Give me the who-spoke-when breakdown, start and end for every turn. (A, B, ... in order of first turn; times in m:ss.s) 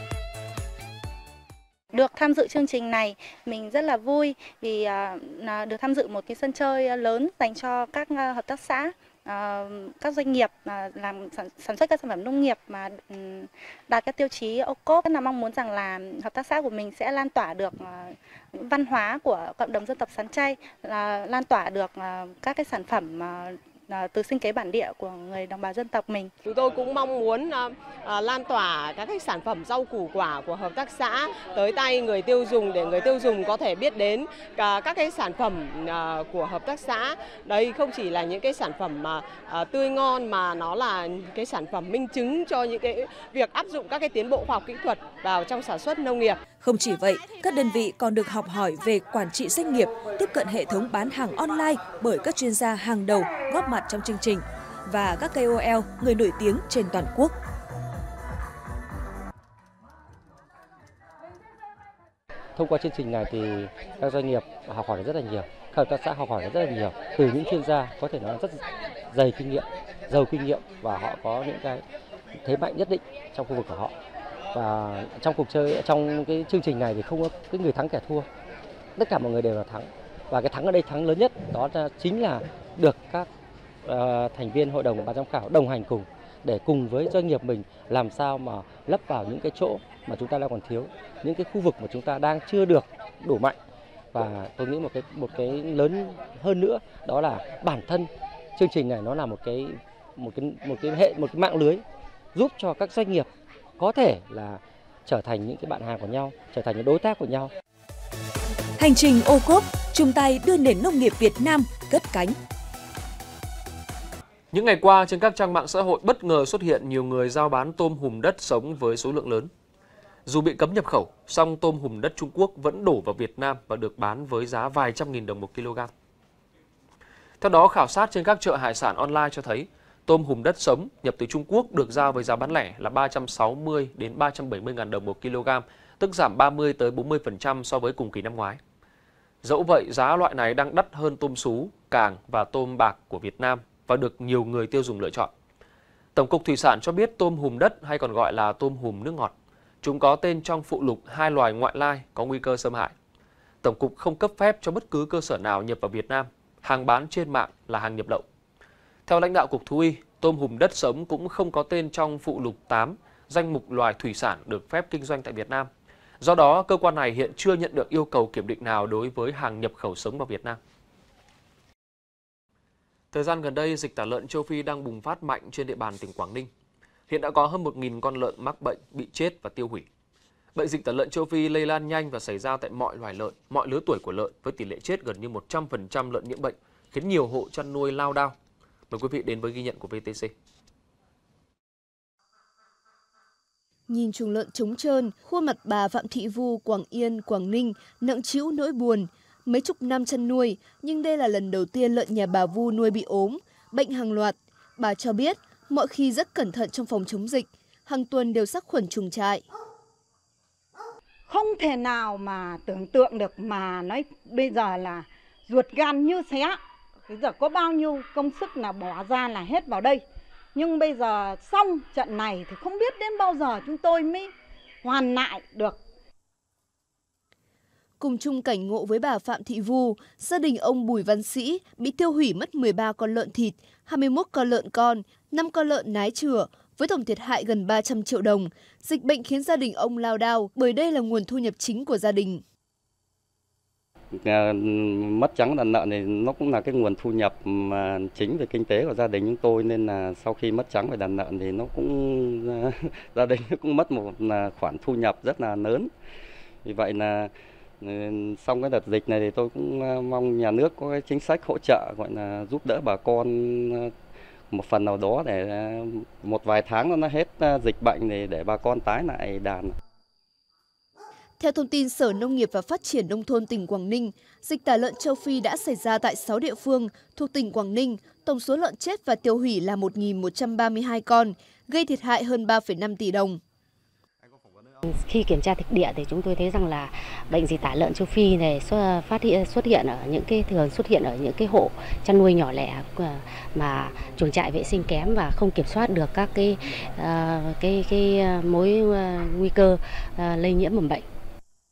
0:01.9-0:26.3 A
0:26.4-0:46.5 B
0:46.5-0:57.3 C
1:02.6-1:11.8 D
1:12.4-1:13.9 D
1:14.5-1:18.3 D
1:19.0-1:23.3 D
1:23.8-1:33.6 D
1:34.1-1:47.5 D
1:48.8-1:52.4 C
1:54.5-1:59.5 E
2:00.2-2:05.9 E
2:07.4-2:18.6 E
2:19.4-2:25.3 E
2:26.1-2:32.9 E
2:33.6-2:38.2 E
2:39.1-2:45.7 E
2:46.2-2:50.6 E
2:53.1-2:56.5 E
2:57.1-2:59.9 E
3:00.5-3:08.3 E
3:08.9-3:10.3 E
3:13.9-3:29.4 F
3:31.3-3:45.8 G
3:48.0-4:02.4 F
4:04.1-4:15.9 H
4:16.6-4:23.9 H
4:24.5-4:29.7 H
4:31.4-4:43.4 F
4:44.9-5:01.0 I